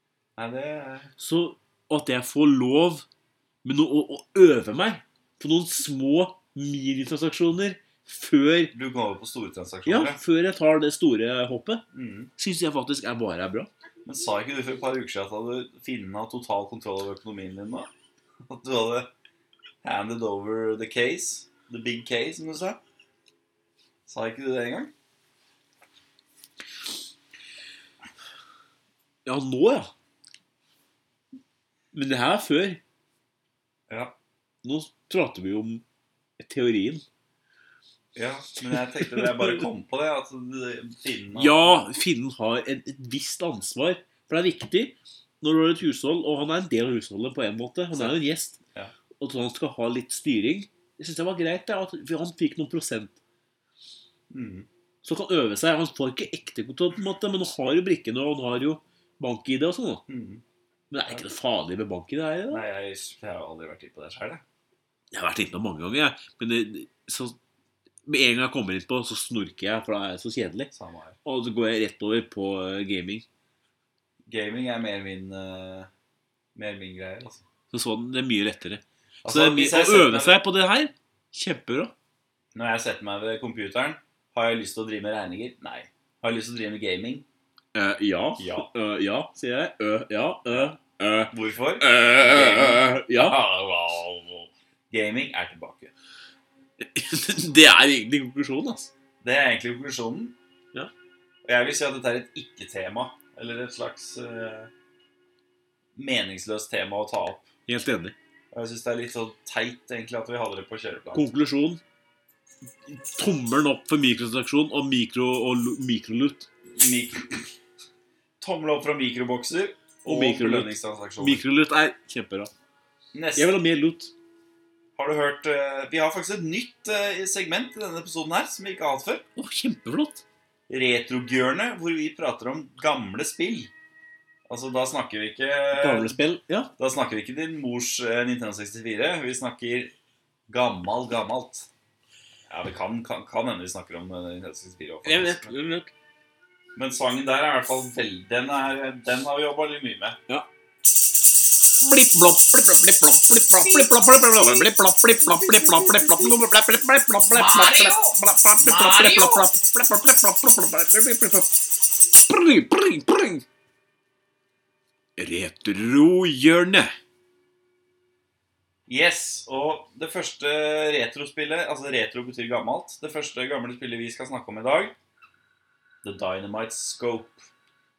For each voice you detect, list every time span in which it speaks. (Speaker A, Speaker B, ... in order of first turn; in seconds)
Speaker A: 0.4-1.1, 8.7-10.2, 11.9-12.3, 14.0-17.9, 18.5-19.1, 19.8-22.8, 24.1-24.9, 33.9-34.1, 38.1-41.8, 47.9-48.2, 54.3-54.7, 60.1-60.4, 62.5-64.4, 70.7-71.2, 74.3-75.9, 76.5-77.4, 79.2-80.4, 82.5-87.2, 88.4-88.7, 91.3-95.9, 99.2-100.3, 101.4-104.7, 105.9-107.5, 108.5-111.3, 116.7-117.5, 118.4-121.4, 123.1-123.5, 125.0-129.2, 130.7-133.7, 134.5-136.2, 136.8-139.9, 140.5-141.7, 142.5-145.5, 146.8-150.2, 155.8-156.1, 157.3-159.4, 168.9-174.9, 176.0-177.4
Speaker B: 1.2-3.0, 3.6-8.7, 9.8-11.8, 12.4-13.7, 29.2-29.9, 31.9-32.8, 34.6-35.8, 36.4-37.0, 39.0-39.6, 41.3-48.6, 49.2-53.2, 55.0-60.0, 60.9-62.6, 65.1-67.4, 68.0-70.7, 71.2-73.2, 77.7-81.9, 87.7-93.4, 96.8-98.9, 107.7-108.2, 111.1-111.8, 112.9-116.5, 120.0-122.5, 123.3-124.1, 129.3-130.2, 135.7-136.7, 145.0-145.9, 151.8-163.4, 165.2-166.9